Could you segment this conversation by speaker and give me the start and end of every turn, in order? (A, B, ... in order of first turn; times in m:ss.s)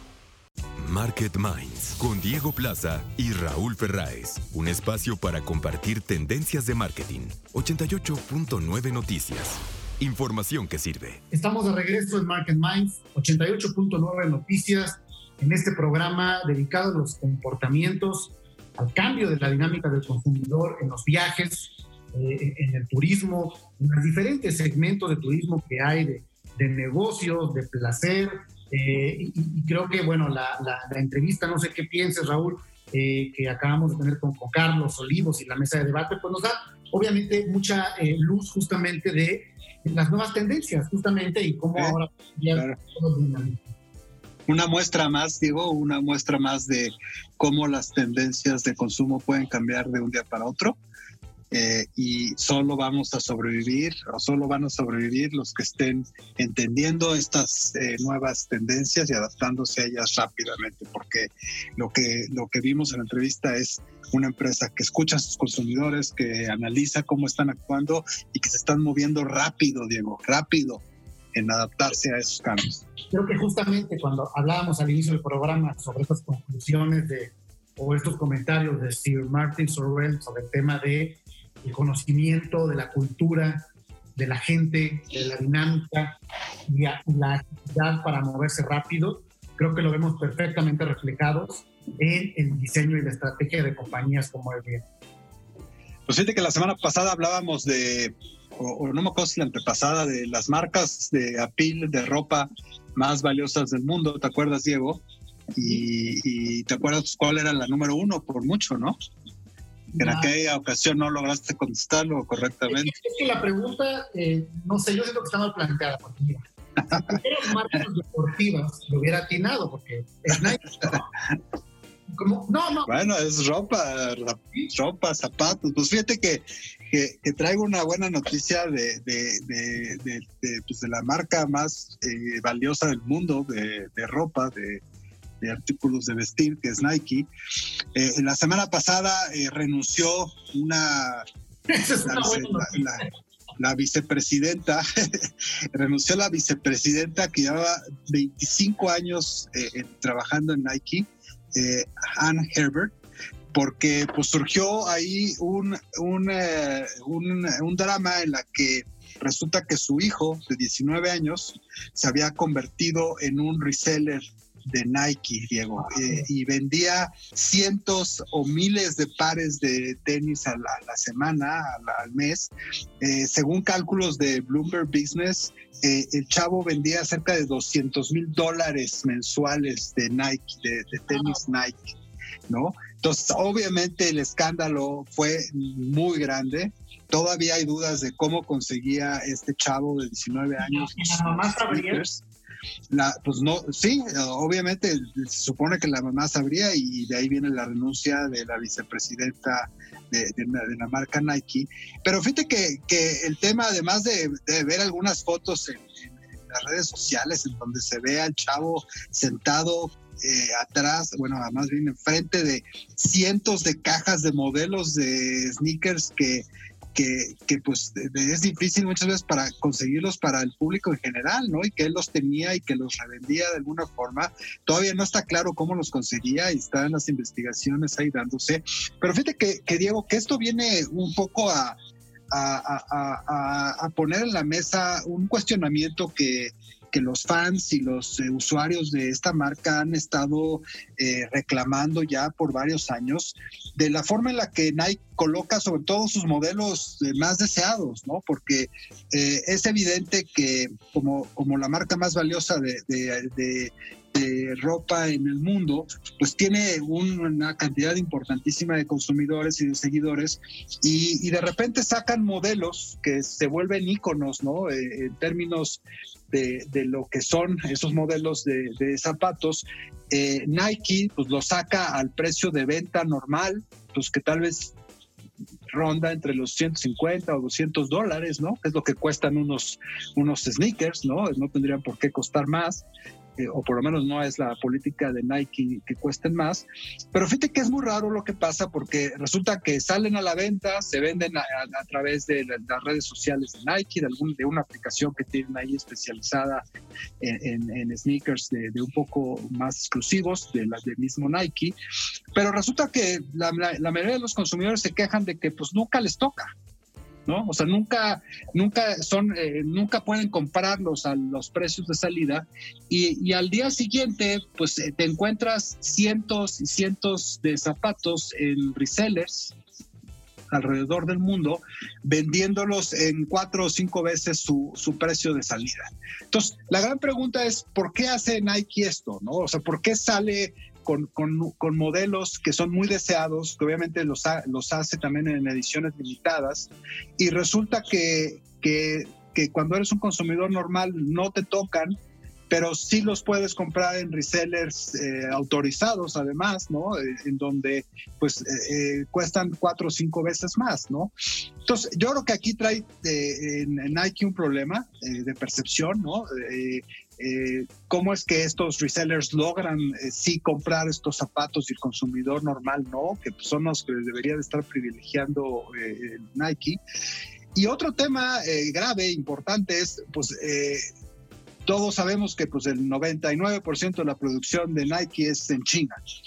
0:00.8-0:11.2 A
0:11.3-0:43.6 B
0:44.5-0:50.8 C
0:51.5-1:10.8 C
1:11.3-1:12.9 C
1:13.1-1:26.1 B
1:26.7-1:34.8 B
1:36.1-1:45.0 C
1:45.5-1:49.0 C
1:49.9-1:50.3 B
1:50.0-1:52.9 C
1:52.7-2:01.0 B
2:02.1-2:02.9 B
2:02.9-2:14.8 C
2:15.4-2:17.3 C
2:17.9-2:21.2 C
2:21.7-2:23.1 B
2:22.0-2:23.0 C
2:23.6-2:33.0 C
2:33.5-3:01.9 C
3:01.1-3:01.4 B
3:02.5-3:12.2 C
3:10.6-3:12.0 B
3:12.9-3:51.8 C
3:52.3-4:34.7 C
4:35.7-4:42.8 C
4:43.4-4:56.6 C
4:57.2-5:01.8 C
5:02.3-5:06.5 C
5:07.2-5:19.6 C
5:20.5-5:41.9 C
5:42.5-5:51.1 C
5:51.6-6:06.8 C
6:07.5-6:10.8 C
6:11.6-6:16.0 C